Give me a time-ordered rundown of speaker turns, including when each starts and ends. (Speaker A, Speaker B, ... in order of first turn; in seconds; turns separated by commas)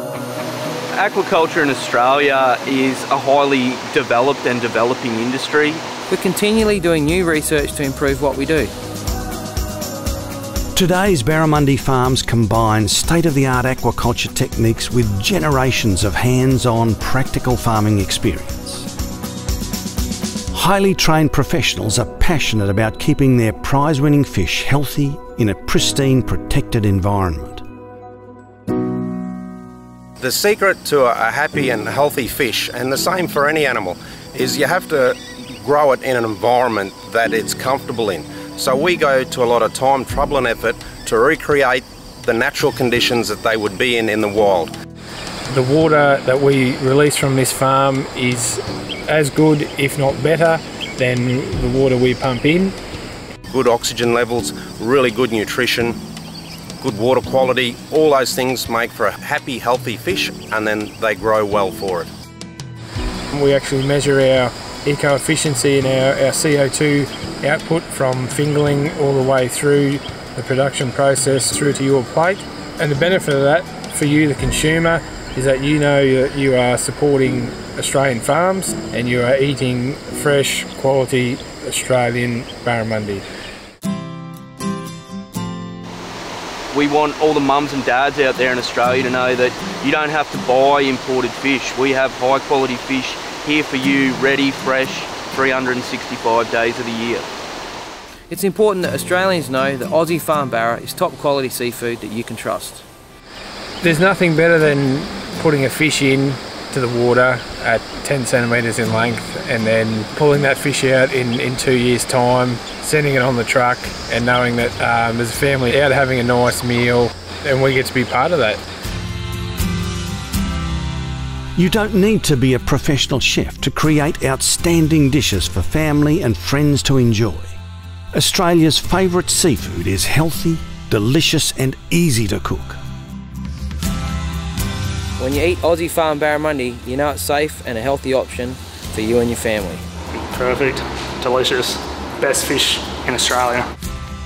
Speaker A: 0.9-5.8, Speaker B: 6.1-8.7, Speaker C: 10.7-18.9, Speaker C: 20.5-27.6, Speaker D: 30.2-44.7, Speaker E: 45.5-52.8, Speaker D: 53.5-56.0, Speaker D: 56.8-62.1, Speaker E: 63.3-83.2, Speaker A: 86.7-97.3, Speaker B: 98.3-102.8, Speaker E: 103.8-118.6, Speaker C: 121.5-127.6, Speaker C: 128.1-132.8, Speaker B: 135.2-139.8, Speaker F: 140.3-143.7